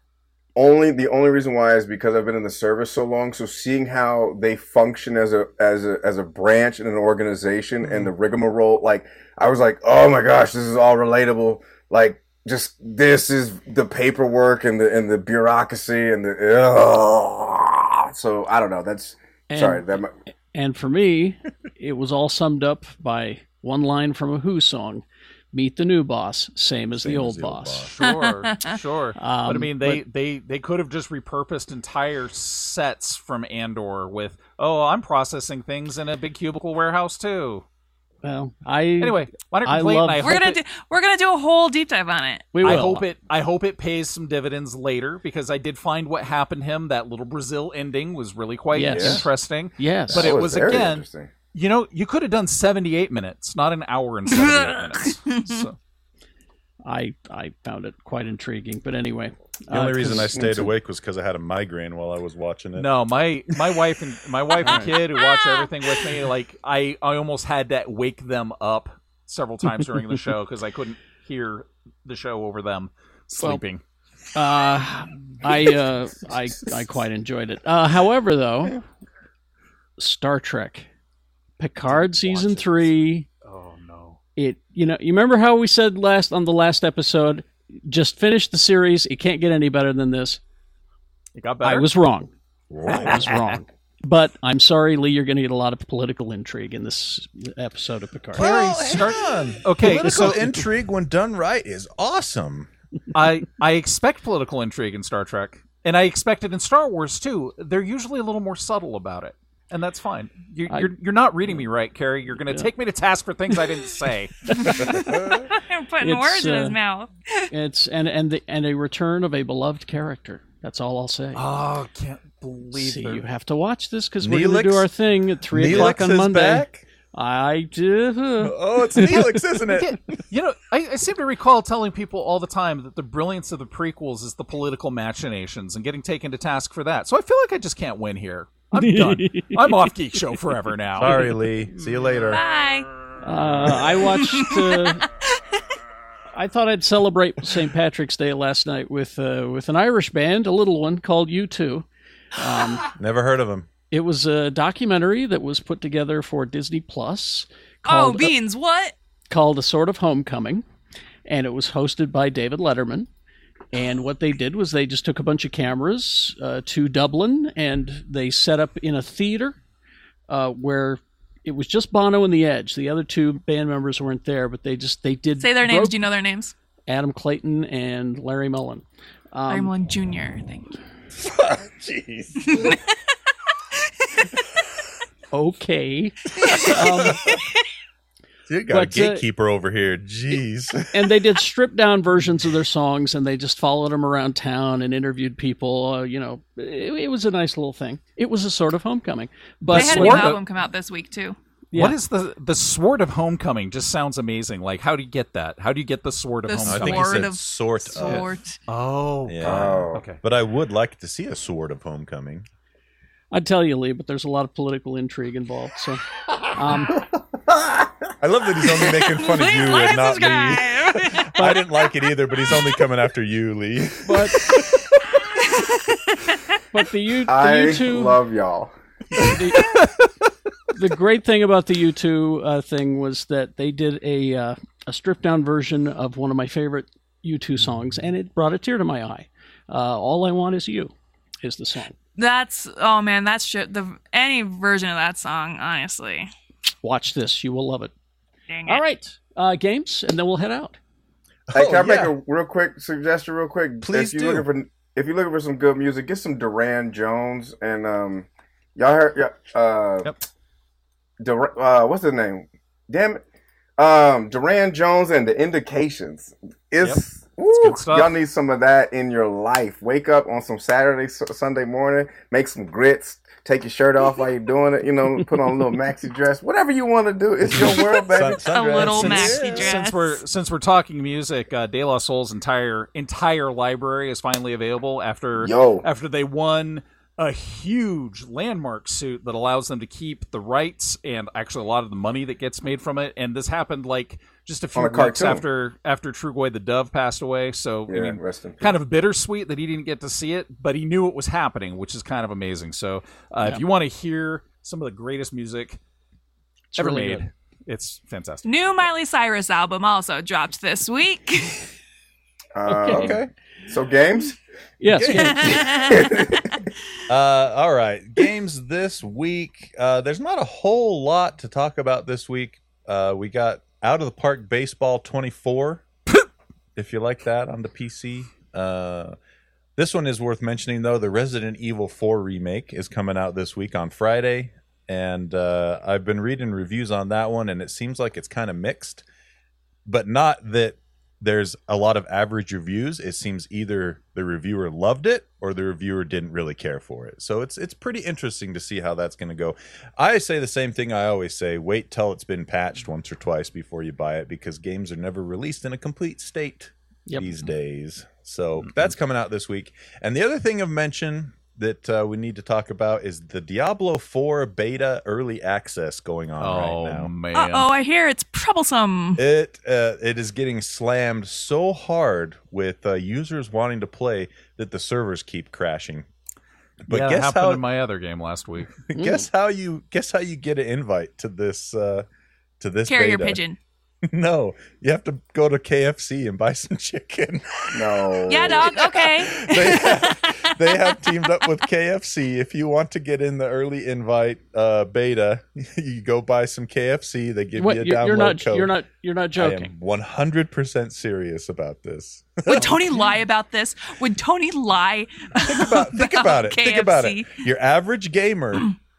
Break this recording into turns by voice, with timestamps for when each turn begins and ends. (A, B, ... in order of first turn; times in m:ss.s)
0:00.5-0:20.1 A
0:19.5-0:20.0 B
0:20.5-0:27.9 B
0:26.9-0:27.9 C
0:27.9-0:37.6 D
0:28.0-0:28.7 E
0:29.2-0:30.0 B
0:38.2-0:40.3 B
0:39.0-0:40.6 D
0:40.2-0:42.6 E
0:42.5-0:43.0 B
0:42.6-0:55.8 D
0:48.7-0:50.4 B
0:48.9-0:49.2 A
0:50.1-0:51.3 A
0:54.3-0:55.6 E
0:56.8-1:00.6 B
0:59.7-1:02.9 C
1:00.3-1:00.6 A
1:02.8-1:13.8 D
1:04.6-1:04.9 B
1:04.6-1:05.7 E
1:13.4-1:13.6 B
1:14.3-1:18.8 B
1:20.0-1:20.9 B
1:21.6-1:23.2 B
1:21.9-1:24.2 D
1:24.4-1:30.4 B
1:31.4-1:31.9 D
1:31.6-1:32.3 B
1:32.7-1:33.3 C
1:32.9-1:33.6 D
1:32.9-1:38.5 B
1:38.3-1:40.5 D
1:38.3-1:42.7 C
1:43.1-1:54.3 D
1:54.5-1:55.4 B
1:55.5-1:57.5 E
1:56.0-1:56.8 B
1:57.5-2:01.4 B
2:01.3-2:03.2 D
2:02.7-2:09.4 B
2:04.2-2:04.9 C
2:05.5-2:06.8 C
2:08.4-2:10.2 C
2:09.7-2:21.2 D
2:18.7-2:19.8 B
2:21.0-2:22.4 C
2:21.0-2:21.3 B
2:22.3-2:22.9 E
2:23.2-2:25.0 B
2:24.1-2:25.4 E
2:26.3-2:31.8 B
2:32.4-2:32.8 B
2:33.0-2:33.7 C
2:33.9-2:38.3 B
2:37.8-2:38.9 E
2:39.3-2:40.6 B
2:41.3-2:43.1 B
2:43.7-2:49.6 B
2:50.3-2:56.0 B
2:55.4-2:56.5 E
2:56.9-2:59.7 B
2:59.5-3:00.8 E
3:01.2-3:02.7 C
3:02.4-3:02.9 E
3:05.3-3:07.2 B
3:06.4-3:07.6 E
3:06.5-3:07.3 C
3:08.5-3:10.9 C
3:08.7-3:09.2 B
3:10.9-3:20.3 B
3:19.7-3:20.4 D
3:19.7-3:21.4 E
3:21.7-3:22.0 B
3:21.7-3:27.3 D
3:26.4-3:28.6 E
3:26.6-3:28.2 C
3:28.0-3:30.2 D
3:29.2-3:32.4 C
3:29.4-3:30.0 A
3:33.3-3:37.0 B
3:38.2-3:44.8 C
3:38.8-3:41.4 E
3:41.4-3:41.6 B
3:44.0-3:44.4 B
3:45.2-3:46.5 E
3:46.7-3:48.2 B
3:47.3-3:48.7 A
3:49.2-3:49.8 B
3:50.7-4:01.9 B
4:02.2-4:06.3 E
4:06.8-4:07.9 B
4:08.5-4:08.8 E
4:08.6-4:10.8 B
4:11.5-4:12.1 C
4:11.5-4:20.1 A
4:13.8-4:14.5 C
4:21.2-4:23.2 A
4:23.8-4:39.3 A
4:27.5-4:28.2 D
4:37.5-4:39.7 C
4:37.6-4:40.2 E
4:39.1-5:05.8 D
4:45.4-4:45.8 A
4:54.7-4:55.4 A
4:57.9-4:58.8 A
5:06.7-5:07.2 B
5:06.8-5:08.9 D
5:08.4-5:11.7 E
5:12.6-5:14.4 A
5:12.6-5:13.1 B
5:12.9-5:13.3 C
5:14.8-5:15.6 B
5:14.9-5:15.6 C
5:15.0-5:16.5 E
5:15.7-5:16.6 A
5:17.1-5:25.9 C
5:26.8-5:29.2 C
5:29.8-5:39.0 C
5:39.8-6:07.1 C
5:57.0-5:57.4 B
5:58.6-5:58.8 D
6:06.4-6:07.7 D
6:07.3-6:09.2 E
6:09.2-6:16.0 C
6:16.8-6:17.6 C
6:16.9-6:18.8 D
6:18.9-6:22.0 C
6:18.9-6:19.3 B
6:22.6-6:23.4 C
6:22.9-6:23.6 E
6:24.0-6:38.7 C
6:27.7-6:28.7 A
6:28.3-6:31.0 E
6:37.6-6:39.7 B
6:39.3-6:42.7 C
6:42.5-6:47.4 E
6:45.4-6:48.7 C